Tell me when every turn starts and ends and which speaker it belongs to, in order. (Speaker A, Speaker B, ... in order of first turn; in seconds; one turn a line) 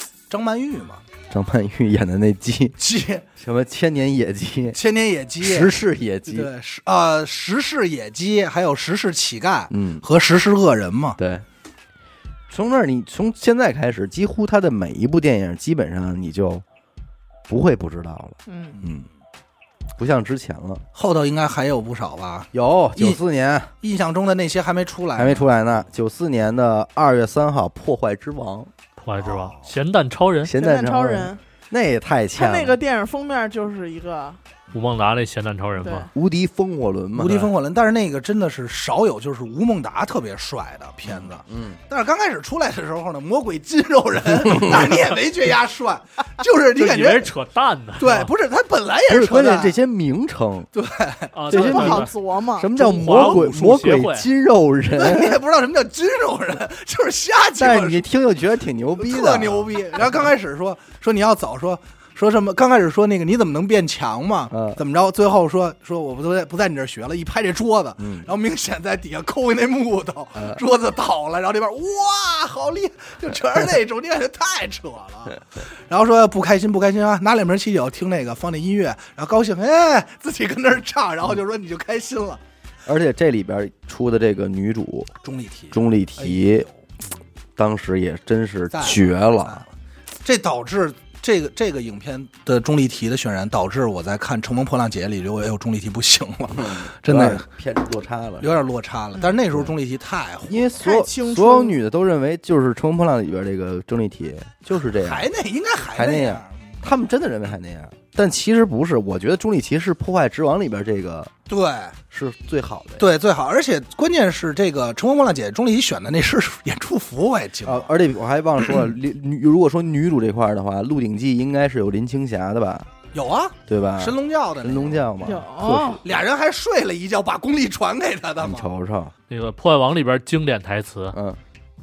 Speaker A: 0.3-1.0
Speaker B: 1.3-2.8
Speaker A: 2.8-3.2
Speaker B: 3.4-4.8
Speaker A: 4.7-5.7
Speaker B: 5.4-6.5
Speaker A: 6.3-11.2
Speaker B: 9.7-10.0
Speaker B: 11.2-11.4
Speaker B: 12.5-16.6
Speaker B: 17.5-19.0
Speaker C: 18.5-18.8
Speaker A: 18.8-19.1
Speaker B: 20.0-20.8
Speaker A: 20.9-23.2
Speaker B: 22.5-23.7
Speaker A: 23.8-25.5
Speaker B: 25.1-28.7
Speaker D: 29.0-30.5
Speaker A: 29.2-29.7
Speaker B: 30.4-32.8
Speaker C: 30.5-31.4
Speaker C: 32.4-34.4
Speaker D: 34.7-36.1
Speaker C: 35.8-36.1
Speaker B: 36.1-37.5
Speaker A: 37.1-47.3
Speaker B: 41.1-41.8
Speaker B: 44.4-44.9
Speaker D: 46.8-48.3
Speaker A: 48.0-49.7
Speaker B: 49.1-50.7
Speaker A: 50.7-51.3
Speaker D: 51.3-52.1
Speaker B: 51.5-55.4
Speaker C: 51.5-53.2
Speaker D: 52.8-54.3
Speaker A: 54.9-58.0
Speaker B: 57.5-59.6
Speaker A: 59.0-82.4
Speaker B: 64.5-64.8
Speaker B: 68.0-68.3
Speaker B: 70.3-70.6
Speaker B: 82.8-85.1
Speaker A: 85.2-86.8
Speaker B: 85.7-86.7
Speaker B: 87.6-89.6
Speaker A: 88.7-89.7
Speaker A: 90.2-97.4
Speaker B: 96.5-98.5
Speaker A: 98.4-100.7
Speaker B: 100.5-105.3
Speaker C: 100.8-101.8
Speaker A: 104.9-106.8
Speaker B: 105.8-111.3
Speaker A: 111.5-112.0
Speaker B: 112.1-113.1
Speaker A: 113.0-117.9
Speaker B: 117.6-122.9
Speaker A: 123.1-125.0
Speaker B: 123.7-126.0
Speaker C: 125.2-126.0
Speaker A: 126.0-128.7
Speaker B: 128.4-129.1
Speaker D: 129.3-131.2
Speaker B: 131.1-131.4